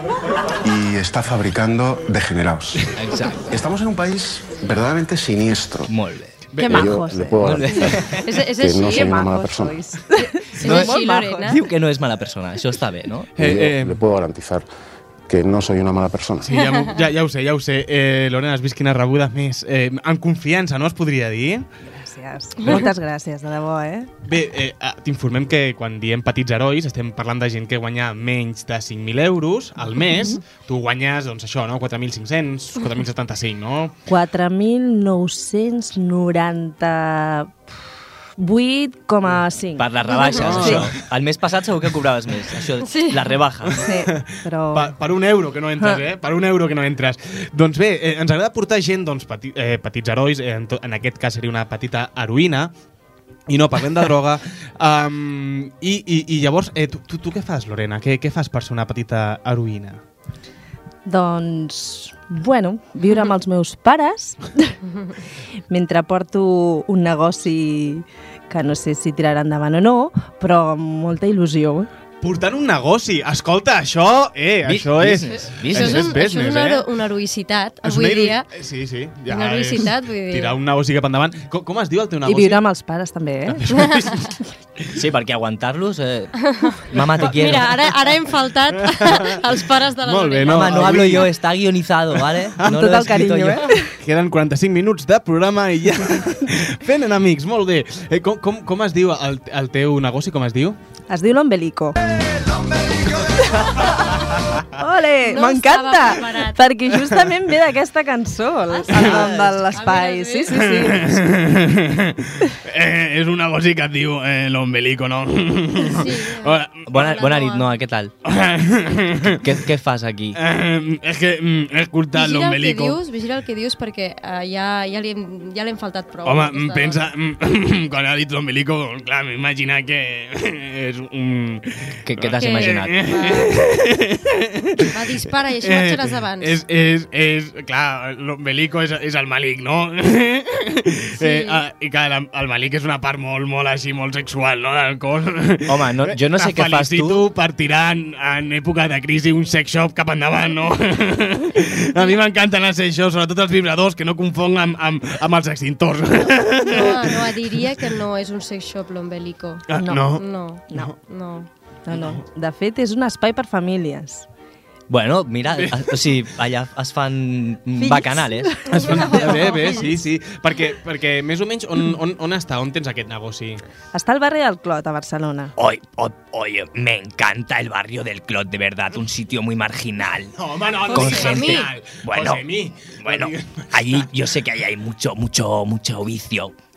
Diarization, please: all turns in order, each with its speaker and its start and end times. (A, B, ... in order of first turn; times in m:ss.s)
0:00.6-0:03.0 A
0:02.9-0:03.4 B
0:03.5-0:05.9 A
0:05.9-0:06.4 B
0:06.5-0:06.8 C
0:06.6-0:07.6 D
0:06.6-0:09.8 A
0:07.4-0:08.2 B
0:08.1-0:09.2 E
0:08.6-0:11.4 D
0:10.2-0:11.6 E
0:10.6-0:13.3 B
0:13.4-0:14.0 C
0:13.4-0:14.6 A
0:15.3-0:16.5 A
0:16.4-0:21.6 C
0:21.9-0:24.1 D
0:24.2-0:33.9 C
0:34.1-0:37.6 D
0:38.4-0:39.9 D
0:39.8-0:43.8 B
0:40.1-0:40.4 E
0:40.2-0:40.9 C
0:40.5-0:40.8 D
0:42.8-0:43.4 E
0:43.6-0:52.7 C
0:43.8-0:44.9 D
0:53.5-1:00.0 C
1:01.0-1:04.8 D
1:05.7-1:11.9 D
1:12.2-1:16.8 C
1:14.6-1:16.1 B
1:15.7-1:18.5 E
1:17.8-1:22.6 C
1:19.3-1:20.6 E
1:22.2-1:23.8 D
1:23.5-1:24.9 C
1:24.9-1:26.3 B
1:26.4-1:31.1 E
1:26.9-1:27.8 B
1:27.0-1:27.8 C
1:28.7-1:29.4 C
1:30.0-1:31.3 C
1:30.4-1:33.7 B
1:32.6-1:33.9 D
1:34.0-1:40.8 C
1:41.1-1:42.0 D
1:43.6-1:51.2 D
1:45.2-1:46.8 E
1:48.7-1:50.7 E
1:48.9-1:49.3 C
1:50.5-1:56.8 C
1:55.8-1:57.7 E
1:56.9-1:58.1 B
1:58.2-1:59.4 C
1:59.2-2:00.4 B
2:00.3-2:03.0 C
2:02.1-2:07.1 E
2:06.2-2:15.0 C
2:12.0-2:13.0 B
2:12.4-2:13.6 E
2:14.8-2:16.6 E
2:15.6-2:37.6 C
2:21.2-2:21.6 E
2:25.7-2:27.3 B
2:36.6-2:39.6 E
2:39.7-2:41.0 C
2:39.8-2:40.2 D
2:40.2-2:41.5 E
2:41.9-2:44.2 D
2:44.9-2:48.5 B
2:45.6-2:46.0 C
2:47.8-2:49.9 D
2:48.7-2:53.6 C
2:53.9-2:55.5 D
2:55.6-3:00.3 B
3:00.4-3:04.1 C
3:00.9-3:06.5 B
3:00.9-3:01.7 E